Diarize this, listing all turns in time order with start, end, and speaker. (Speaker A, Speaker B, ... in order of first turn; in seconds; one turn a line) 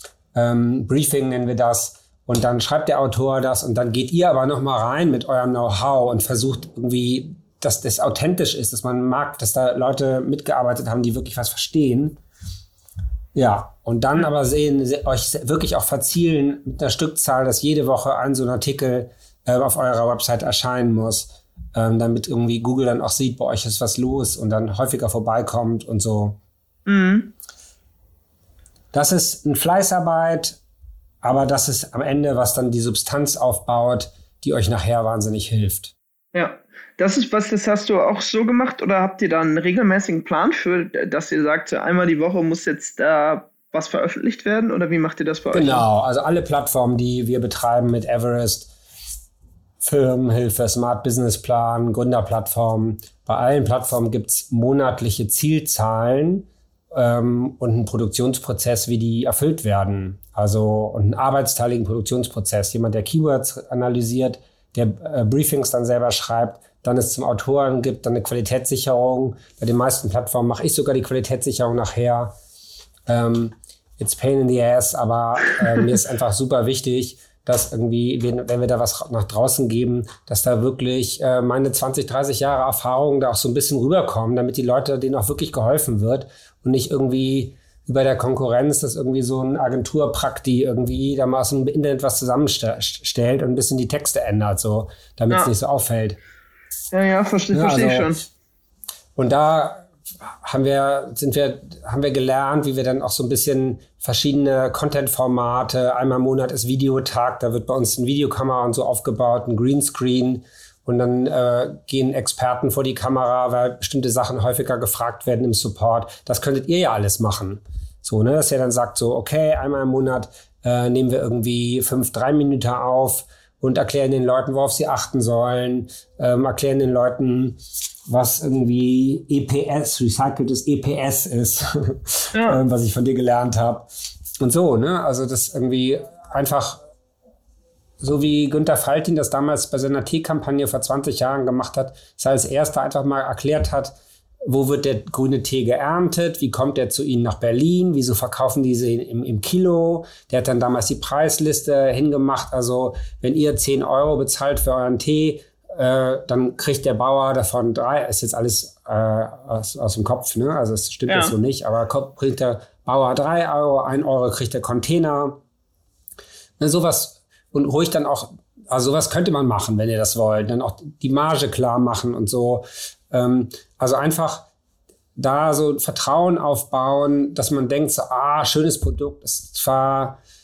Speaker A: 0.3-12.2
Speaker A: 13.3-26.4
Speaker B: 26.9-27.3
Speaker A: 28.9-30.6
Speaker A: 31.2-35.9
Speaker B: 36.3-45.8
Speaker A: 45.5-48.7
Speaker A: 49.8-72.3
Speaker A: 73.1-96.2
Speaker B: 96.9-98.2
Speaker A: 97.5-98.1
Speaker A: 99.2-136.8
Speaker B: 132.3-132.6
Speaker A: 138.0-165.4
Speaker B: 161.1-161.3
Speaker A: 166.6-174.5
Speaker A: 175.2-180.2